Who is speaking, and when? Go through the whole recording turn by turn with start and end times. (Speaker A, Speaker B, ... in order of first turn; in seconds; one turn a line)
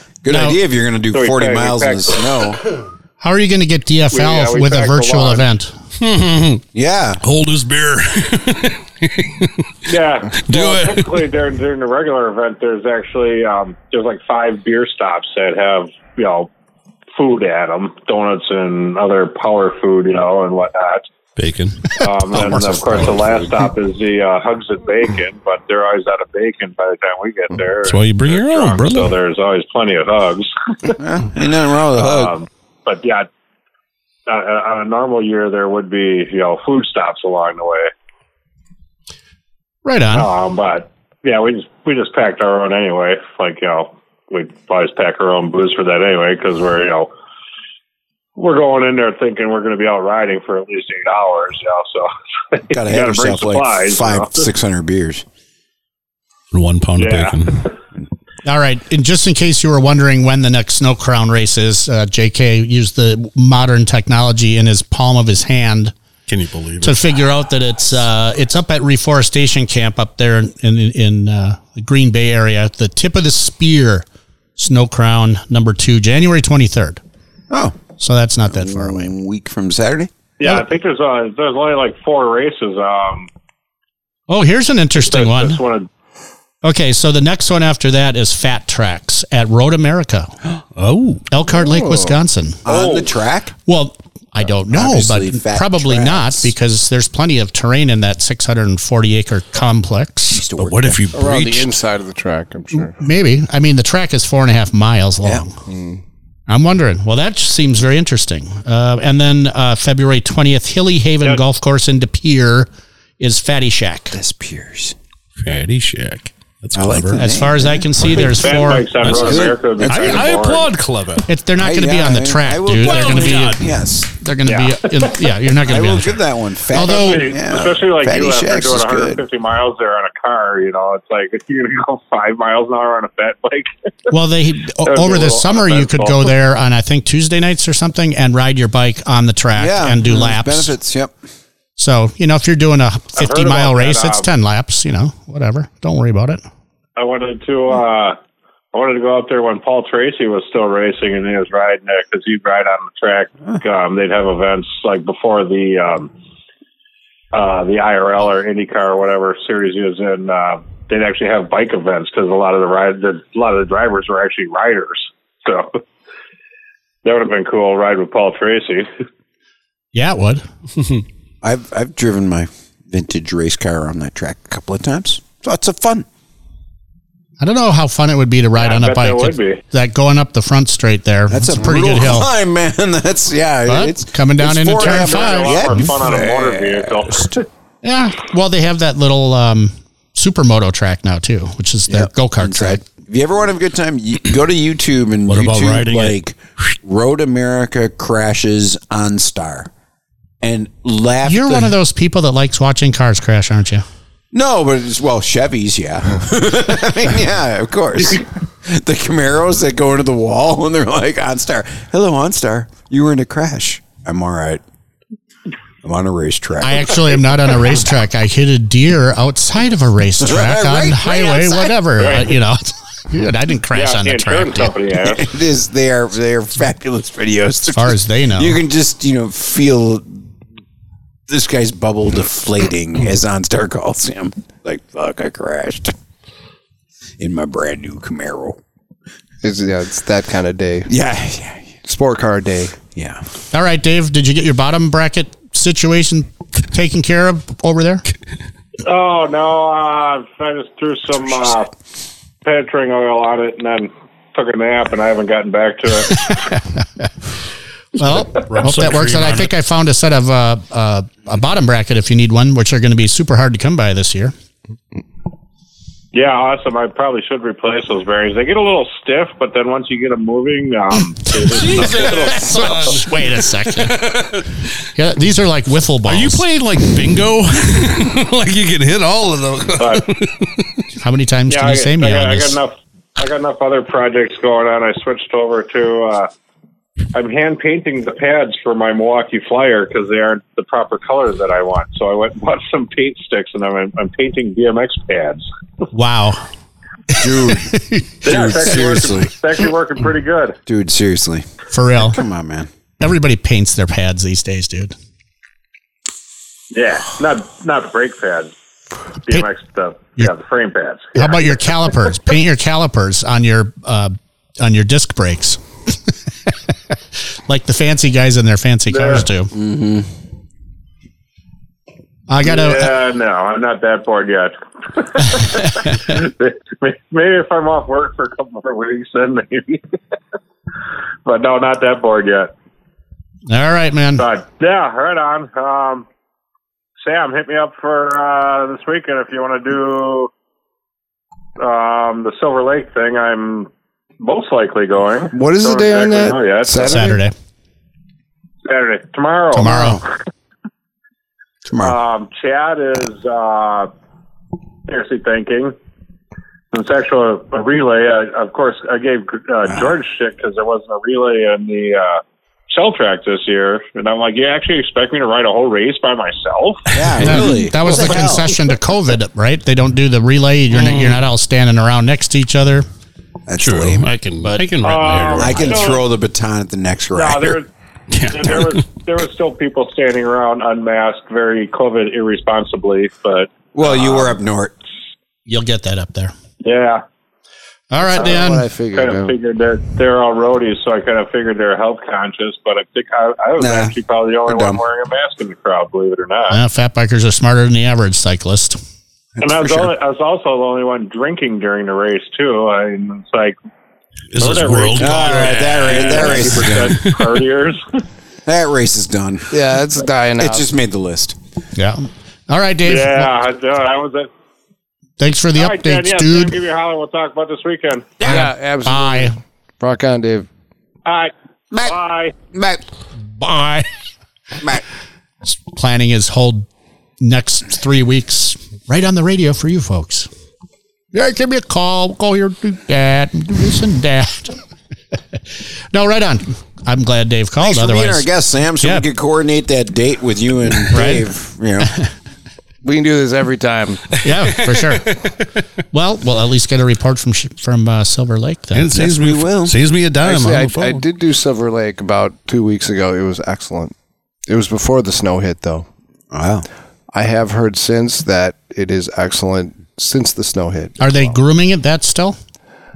Speaker A: 0.2-2.6
Speaker B: 0.3-0.6
Speaker C: 1.1-2.4
Speaker B: 3.2-5.7
Speaker C: 4.1-5.5
Speaker D: 6.0-6.6
Speaker A: 6.7-7.2
Speaker D: 7.2-9.7
Speaker C: 9.8-16.5
Speaker D: 10.4-11.1
Speaker C: 17.1-21.1
Speaker D: 21.4-23.1
Speaker C: 22.0-31.0
Speaker D: 27.8-29.1
Speaker A: 31.0-32.3
Speaker C: 31.9-33.3
Speaker C: 34.3-37.9
Speaker B: 39.8-40.3
Speaker C: 40.1-47.1
Speaker C: 48.4-54.5
Speaker A: 52.7-55.2
Speaker D: 56.5-57.6
Speaker C: 57.0-57.7
Speaker B: 58.4-65.9
Speaker D: 66.3-67.3
Speaker B: 66.8-74.0
Speaker B: 74.6-77.0
Speaker A: 77.5-77.8
Speaker B: 78.0-79.1
Speaker A: 78.5-80.1
Speaker C: 80.4-83.3
Speaker B: 84.3-85.6
Speaker C: 85.1-85.9
Speaker B: 86.6-90.3
Speaker D: 90.8-91.3
Speaker B: 91.3-92.6
Speaker E: 91.7-92.1
Speaker A: 92.6-93.5
Speaker C: 92.6-93.1
Speaker B: 93.7-100.4
Speaker A: 94.7-96.5
Speaker A: 100.3-101.0
Speaker D: 100.6-101.7
Speaker E: 101.1-103.0
Speaker B: 102.8-105.5
Speaker E: 105.7-106.0
Speaker B: 106.5-114.1
Speaker A: 114.1-114.9
Speaker D: 115.4-117.4
Speaker A: 116.7-118.4
Speaker B: 117.1-119.0
Speaker C: 118.0-120.7
Speaker A: 119.0-120.3
Speaker D: 119.0-121.3
Speaker B: 121.3-126.2
Speaker A: 121.5-124.1
Speaker D: 122.8-123.7
Speaker C: 124.5-125.1
Speaker A: 125.6-129.2
Speaker B: 126.7-127.3
Speaker C: 126.8-134.1
Speaker B: 134.1-140.7
Speaker C: 134.8-136.3
Speaker A: 139.6-141.1
Speaker B: 141.8-146.4
Speaker C: 143.2-144.3
Speaker C: 147.0-148.2
Speaker C: 148.7-156.1
Speaker C: 157.3-165.8
Speaker C: 167.0-168.9
Speaker B: 169.9-170.4
Speaker A: 171.4-176.1
Speaker B: 177.4-182.3
Speaker C: 178.6-179.6
Speaker A: 181.3-187.3
Speaker B: 183.7-185.9
Speaker C: 184.7-187.4
Speaker B: 187.8-192.8
Speaker A: 191.9-199.7
Speaker D: 195.3-196.2
Speaker A: 200.4-201.7
Speaker B: 201.2-203.8
Speaker A: 204.3-214.6
Speaker A: 215.8-217.1
Speaker B: 216.6-224.7
Speaker A: 220.2-221.8
Speaker C: 222.0-222.3
Speaker C: 223.7-225.3
Speaker A: 225.0-230.2
Speaker B: 227.7-228.6
Speaker A: 231.3-235.9
Speaker A: 237.2-238.6
Speaker E: 239.4-240.9
Speaker A: 240.9-241.7
Speaker E: 241.8-242.8
Speaker A: 242.9-243.2
Speaker B: 243.5-248.0
Speaker C: 248.8-251.7
Speaker C: 252.4-256.4
Speaker B: 256.1-256.6
Speaker B: 257.9-264.3
Speaker D: 258.5-259.5
Speaker C: 266.1-273.0
Speaker D: 271.4-274.6
Speaker B: 271.6-274.1
Speaker B: 274.9-276.4
Speaker D: 276.0-280.8
Speaker C: 279.8-280.0
Speaker B: 281.0-282.6
Speaker C: 281.5-286.3
Speaker C: 287.1-295.4
Speaker B: 295.9-296.4
Speaker A: 297.1-299.3
Speaker B: 297.2-298.1
Speaker C: 298.2-300.6
Speaker A: 300.6-301.4
Speaker B: 301.7-302.2
Speaker A: 302.0-302.7
Speaker B: 303.0-304.9
Speaker C: 306.7-308.5
Speaker C: 309.3-311.4
Speaker B: 311.1-316.5
Speaker B: 317.5-319.5
Speaker C: 318.9-319.3
Speaker A: 319.5-320.1
Speaker B: 322.3-322.9
Speaker C: 322.4-329.8
Speaker C: 331.2-332.5
Speaker B: 333.5-334.2
Speaker C: 334.2-336.1
Speaker C: 337.0-340.3
Speaker C: 341.6-347.1
Speaker E: 345.3-347.2
Speaker B: 346.8-347.3
Speaker C: 348.6-350.1
Speaker B: 349.5-350.0
Speaker A: 351.7-351.9
Speaker C: 351.8-353.9
Speaker C: 354.9-355.7
Speaker C: 356.7-366.9
Speaker A: 366.9-368.5
Speaker D: 367.1-367.4
Speaker B: 367.2-372.9
Speaker D: 370.7-371.2
Speaker A: 373.5-374.1
Speaker D: 373.6-375.8
Speaker B: 374.4-374.6
Speaker C: 374.8-376.1
Speaker A: 375.4-377.6
Speaker C: 377.1-377.7
Speaker D: 378.1-378.8
Speaker C: 378.3-384.1
Speaker A: 383.7-384.7
Speaker B: 385.5-386.3
Speaker C: 386.6-387.0
Speaker B: 387.9-388.7
Speaker E: 388.1-389.3
Speaker C: 388.2-388.4
Speaker C: 388.9-396.6
Speaker A: 393.6-393.9
Speaker A: 394.5-394.8
Speaker B: 396.5-398.8
Speaker C: 399.4-403.6
Speaker D: 404.3-407.2
Speaker C: 404.4-408.0
Speaker A: 405.0-407.0
Speaker A: 408.4-409.6
Speaker E: 409.5-410.7
Speaker A: 410.4-411.4
Speaker B: 411.8-413.3
Speaker C: 412.9-414.3
Speaker B: 415.2-416.6
Speaker C: 415.5-418.2
Speaker B: 418.2-419.3
Speaker E: 418.2-420.5
Speaker C: 421.1-421.3
Speaker C: 421.8-422.4
Speaker A: 422.5-422.8
Speaker B: 423.3-423.9
Speaker B: 425.5-426.6
Speaker B: 427.2-430.3
Speaker B: 431.1-434.6
Speaker B: 435.1-435.4
Speaker B: 435.9-438.2
Speaker A: 437.6-441.9
Speaker B: 440.9-441.2
Speaker B: 441.8-442.1
Speaker E: 442.8-444.1
Speaker B: 444.2-445.1
Speaker D: 444.3-445.4
Speaker B: 445.9-449.0
Speaker D: 448.7-451.0
Speaker A: 448.9-449.7
Speaker E: 450.2-453.9
Speaker E: 454.5-455.9
Speaker A: 456.3-456.6
Speaker E: 457.1-461.4
Speaker B: 461.0-462.4